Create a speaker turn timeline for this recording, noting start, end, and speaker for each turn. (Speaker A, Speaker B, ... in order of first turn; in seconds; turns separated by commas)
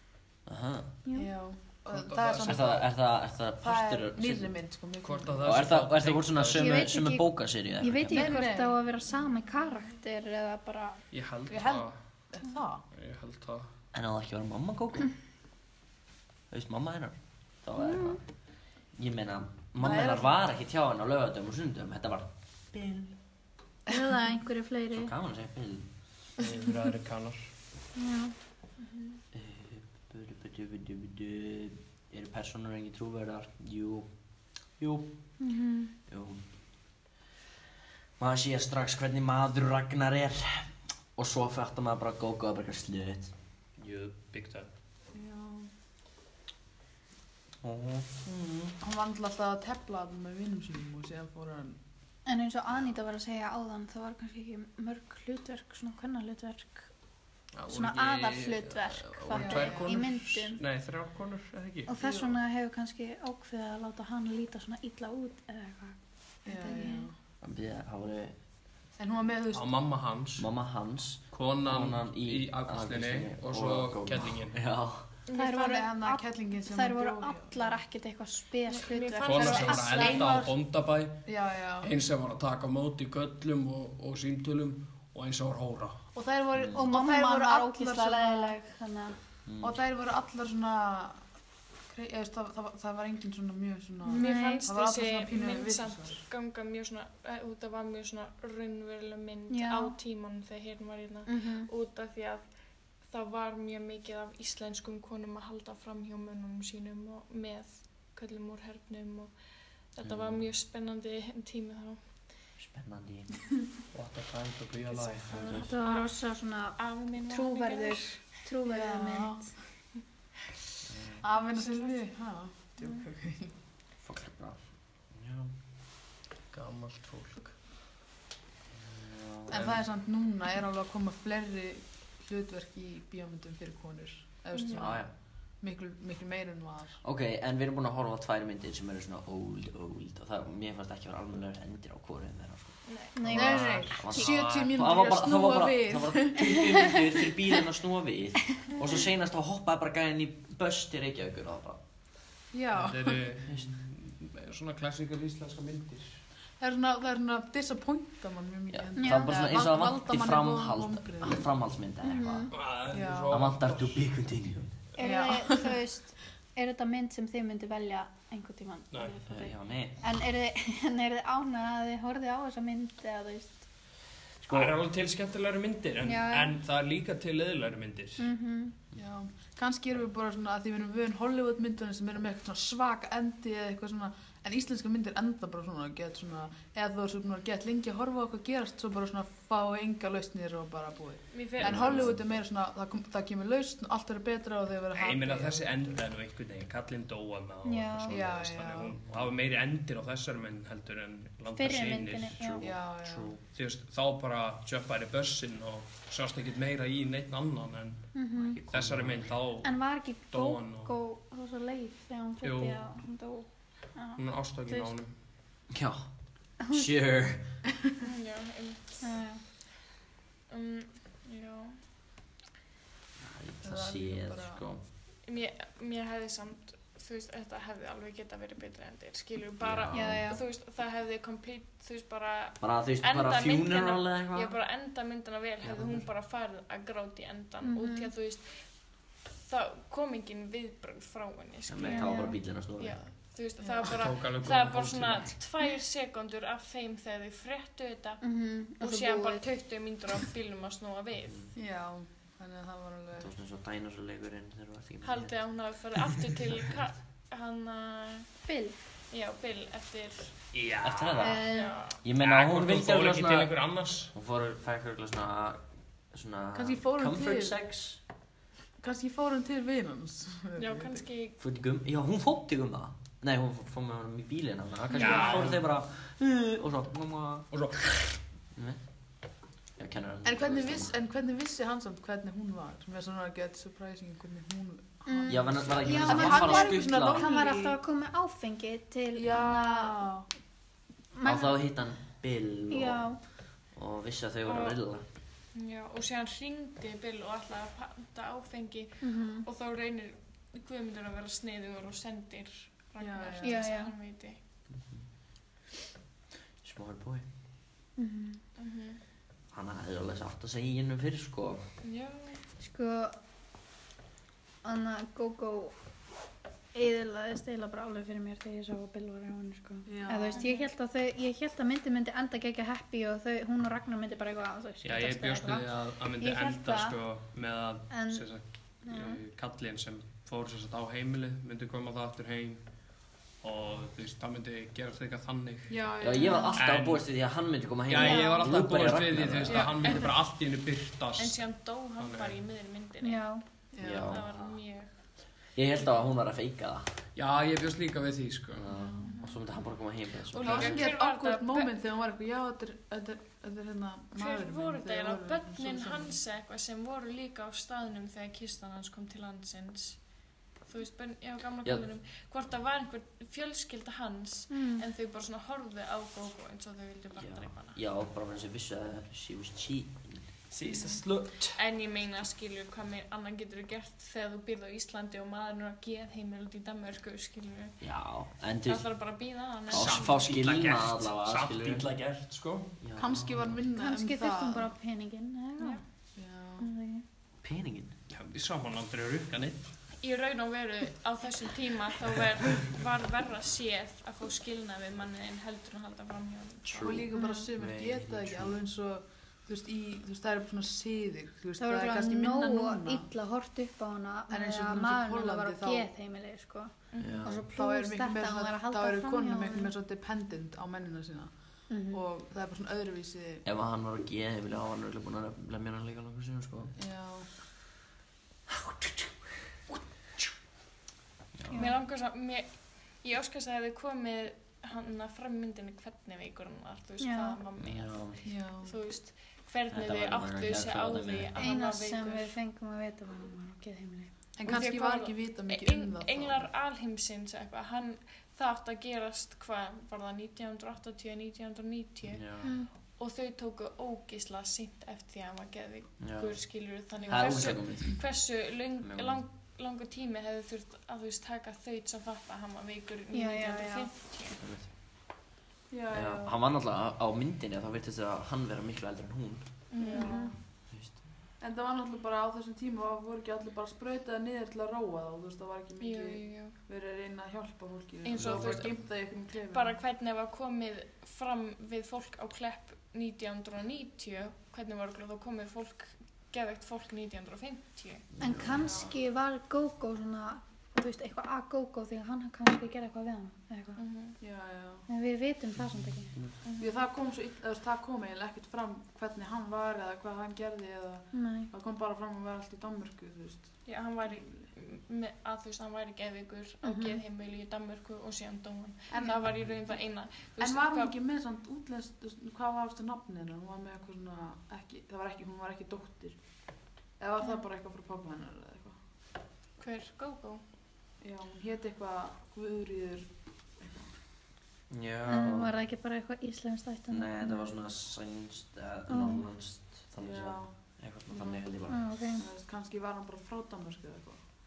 Speaker A: 0.5-0.9, Speaker B: 1.1-1.3, Speaker C: 1.1-2.9, Speaker D: 1.9-2.9, Speaker A: 2.4-4.6, Speaker C: 3.6-5.5, Speaker D: 5.0-6.7, Speaker A: 5.5-8.4, Speaker B: 6.5-11.1, Speaker C: 8.1-8.8, Speaker D: 11.1-12.0, Speaker C: 11.5-12.8, Speaker D: 12.9-13.7, Speaker A: 13.9-15.1, Speaker A: 16.5-23.1, Speaker B: 17.8-18.2, Speaker C: 19.8-20.3, Speaker B: 23.9-25.1, Speaker A: 24.9-25.9, Speaker D: 26.4-27.5, Speaker B: 27.9-28.4, Speaker E: 28.8-29.2, Speaker A: 29.3-35.4, Speaker B: 35.4-35.9, Speaker A: 36.1-37.0, Speaker A: 38.2-43.3, Speaker D: 43.8-44.7, Speaker C: 45.1-45.7, Speaker A: 47.6-48.1, Speaker C: 48.2-51.8, Speaker B: 52.2-56.9, Speaker D: 57.5-61.9, Speaker B: 57.7-60.6, Speaker C: 59.4-59.9, Speaker B: 61.9-67.1, Speaker C: 62.0-62.4, Speaker C: 66.5-67.2, Speaker A: 67.4-68.4, Speaker C: 69.0-69.8, Speaker D: 69.5-70.5, Speaker A: 70.4-75.1, Speaker D: 71.3-74.6, Speaker E: 75.3-75.6, Speaker B: 75.3-80.3, Speaker C: 75.5-77.8, Speaker E: 78.7-80.2, Speaker D: 79.2-86.0, Speaker C: 79.9-80.5, Speaker C: 81.2-81.9, Speaker C: 86.1-88.6, Speaker B: 86.7-89.2, Speaker A: 89.5-89.8, Speaker C: 89.6-91.2, Speaker C: 91.9-96.2, Speaker B: 94.1-94.7, Speaker E: 94.2-109.3, Speaker B: 99.5-100.0, Speaker B: 101.3-101.7, Speaker E: 109.9-112.0, Speaker A: 110.0-110.5, Speaker A: 112.6-113.4, Speaker D: 113.9-115.7, Speaker E: 114.9-116.3, Speaker B: 115.5-119.5, Speaker E: 116.8-118.2, Speaker C: 118.7-119.5, Speaker A: 120.9-121.2, Speaker C: 121.2-123.5, Speaker E: 121.4-122.1, Speaker A: 124.0-125.5, Speaker D: 126.5-127.6, Speaker A: 128.7-129.7, Speaker C: 129.5-137.0, Speaker E: 134.5-134.9, Speaker A: 134.7-135.1, Speaker A: 137.0-151.8, Speaker E: 142.9-143.2, Speaker B: 143.2-144.2, Speaker C: 143.3-146.7, Speaker D: 143.3-144.7, Speaker C: 152.5-153.2, Speaker D: 152.7-156.2, Speaker C: 156.6-161.4, Speaker A: 158.7-162.5, Speaker B: 159.0-159.3, Speaker B: 162.0-162.5, Speaker D: 162.5-164.1, Speaker C: 162.9-163.4, Speaker A: 163.3-164.8, Speaker B: 164.9-173.7, Speaker C: 165.0-165.7, Speaker A: 169.3-170.0, Speaker D: 174.4-178.3, Speaker B: 176.0-176.6, Speaker B: 178.2-178.8, Speaker C: 178.9-195.7, Speaker E: 191.3-192.1, Speaker A: 191.6-192.3, Speaker D: 194.9-202.9, Speaker B: 197.6-198.3, Speaker C: 198.1-199.0, Speaker A: 199.1-199.3, Speaker B: 201.5-202.7, Speaker C: 202.6-203.3, Speaker A: 203.0-203.4, Speaker D: 203.4-208.1, Speaker B: 208.1-208.6, Speaker A: 208.3-209.3, Speaker D: 208.7-210.9, Speaker B: 209.6-215.0, Speaker D: 212.4-212.9, Speaker D: 214.2-215.2, Speaker A: 215.7-217.6, Speaker B: 216.6-216.9, Speaker E: 218.0-219.1, Speaker B: 219.0-219.4, Speaker E: 220.5-221.8, Speaker A: 223.2-224.8, Speaker C: 223.6-224.6, Speaker E: 225.2-248.2, Speaker A: 229.6-230.2, Speaker B: 229.9-230.4, Speaker A: 232.6-234.6, Speaker A: 235.6-236.0, Speaker B: 237.6-238.1, Speaker A: 241.7-243.0, Speaker B: 241.8-242.4, Speaker C: 243.6-243.9, Speaker D: 243.9-245.4, Speaker B: 248.2-249.5, Speaker E: 248.8-251.4, Speaker C: 251.6-253.3, Speaker A: 253.2-255.8, Speaker E: 255.0-258.4, Speaker B: 258.4-258.8, Speaker E: 259.1-260.4, Speaker D: 260.5-261.4, Speaker A: 260.8-263.5, Speaker B: 261.2-261.9, Speaker E: 261.5-262.0, Speaker D: 262.1-264.1, Speaker A: 264.1-268.0, Speaker C: 266.5-267.6, Speaker C: 268.8-271.1, Speaker E: 270.6-271.4, Speaker A: 271.4-277.5, Speaker D: 274.9-275.7, Speaker B: 274.9-275.3, Speaker D: 277.5-277.9, Speaker A: 278.6-280.9, Speaker C: 280.2-287.8, Speaker B: 285.1-290.1, Speaker A: 285.3-287.3, Speaker C: 289.1-290.3, Speaker B: 291.1-291.7, Speaker A: 291.2-295.0, Speaker B: 292.7-293.3, Speaker E: 294.4-294.8, Speaker E: 295.5-304.4, Speaker B: 299.0-299.4, Speaker C: 303.0-303.6, Speaker B: 303.4-303.9, Speaker A: 306.6-307.2, Speaker B: 308.0-308.4, Speaker E: 308.6-309.0, Speaker A: 309.5-311.7, Speaker E: 311.8-312.4, Speaker B: 312.6-313.2, Speaker B: 314.6-315.7, Speaker B: 316.7-326.9, Speaker C: 319.9-320.4, Speaker E: 320.3-320.7, Speaker D: 324.8-332.7, Speaker B: 327.9-328.3, Speaker B: 328.8-329.2, Speaker D: 333.4-335.9, Speaker C: 335.7-336.6, Speaker A: 336.0-339.8, Speaker B: 336.2-336.6, Speaker D: 336.6-337.1, Speaker D: 337.9-341.4, Speaker B: 337.9-338.4, Speaker E: 339.4-340.2, Speaker E: 341.2-343.3, Speaker D: 342.0-342.4, Speaker B: 343.0-343.4, Speaker C: 343.7-344.2, Speaker A: 343.8-344.6, Speaker E: 343.9-344.9, Speaker A: 345.5-346.9, Speaker D: 347.1-348.8, Speaker A: 348.5-350.7, Speaker C: 348.7-349.1, Speaker E: 349.0-349.4, Speaker C: 350.3-356.2, Speaker E: 350.4-351.7, Speaker E: 354.2-367.8, Speaker B: 364.5-364.8, Speaker A: 367.2-370.3, Speaker D: 370.5-371.6, Speaker E: 371.6-380.2, Speaker A: 377.8-381.9, Speaker D: 379.7-382.8, Speaker A: 382.8-383.6, Speaker C: 383.0-384.7, Speaker B: 383.7-385.8, Speaker C: 386.1-386.7, Speaker B: 386.6-387.1, Speaker A: 387.4-387.9, Speaker D: 388.1-389.7, Speaker E: 390.0-397.0, Speaker A: 396.6-398.6, Speaker C: 396.8-403.1, Speaker B: 397.2-397.4, Speaker B: 401.6-409.7, Speaker C: 404.3-405.9, Speaker E: 406.9-407.3, Speaker A: 407.0-407.4, Speaker C: 407.5-413.4, Speaker B: 411.7-412.0, Speaker A: 413.4-416.7, Speaker C: 416.8-417.3, Speaker A: 418.6-419.1, Speaker A: 421.3-421.7, Speaker B: 421.5-421.8, Speaker E: 421.5-432.4, Speaker B: 427.0-427.4, Speaker A: 427.6-428.3, Speaker C: 428.2-428.7, Speaker A: 429.7-431.4, Speaker B: 431.4-434.1, Speaker C: 434.4-436.5, Speaker E: 434.4-454.4, Speaker A: 442.1-442.5, Speaker B: 442.4-442.7, Speaker A: 446.0-449.2, Speaker C: 447.1-447.5, Speaker B: 453.1-453.9, Speaker A: 454.4-454.7, Speaker C: 455.7-456.3, Speaker A: 455.9-459.4, Speaker E: 459.7-460.2, Speaker C: 459.8-460.4, Speaker B: 459.9-460.3, Speaker A: 460.7-461.1, Speaker C: 461.4-469.8, Speaker E: 465.8-466.6, Speaker E: 468.0-478.8, Speaker A: 468.2-468.6, Speaker A: 478.2-478.7, Speaker B: 478.2-483.8, Speaker E: 483.8-484.2, Speaker C: 484.2-484.9, Speaker B: 484.9-486.2, Speaker E: 486.4-486.8, Speaker C: 486.6-494.2, Speaker B: 491.1-491.5, Speaker E: 493.7-500.9, Speaker B: 496.6-497.0, Speaker C: 498.9-499.3, Speaker C: 500.4-506.2, Speaker C: 507.0-508.8, Speaker E: 509.6-510.4, Speaker C: 511.0-513.1, Speaker C: 513.6-513.9, Speaker A: 514.7-515.5, Speaker B: 515.1-517.5, Speaker A: 516.9-521.8, Speaker B: 518.9-519.3, Speaker C: 520.0-520.5, Speaker B: 521.7-522.3, Speaker C: 522.1-524.2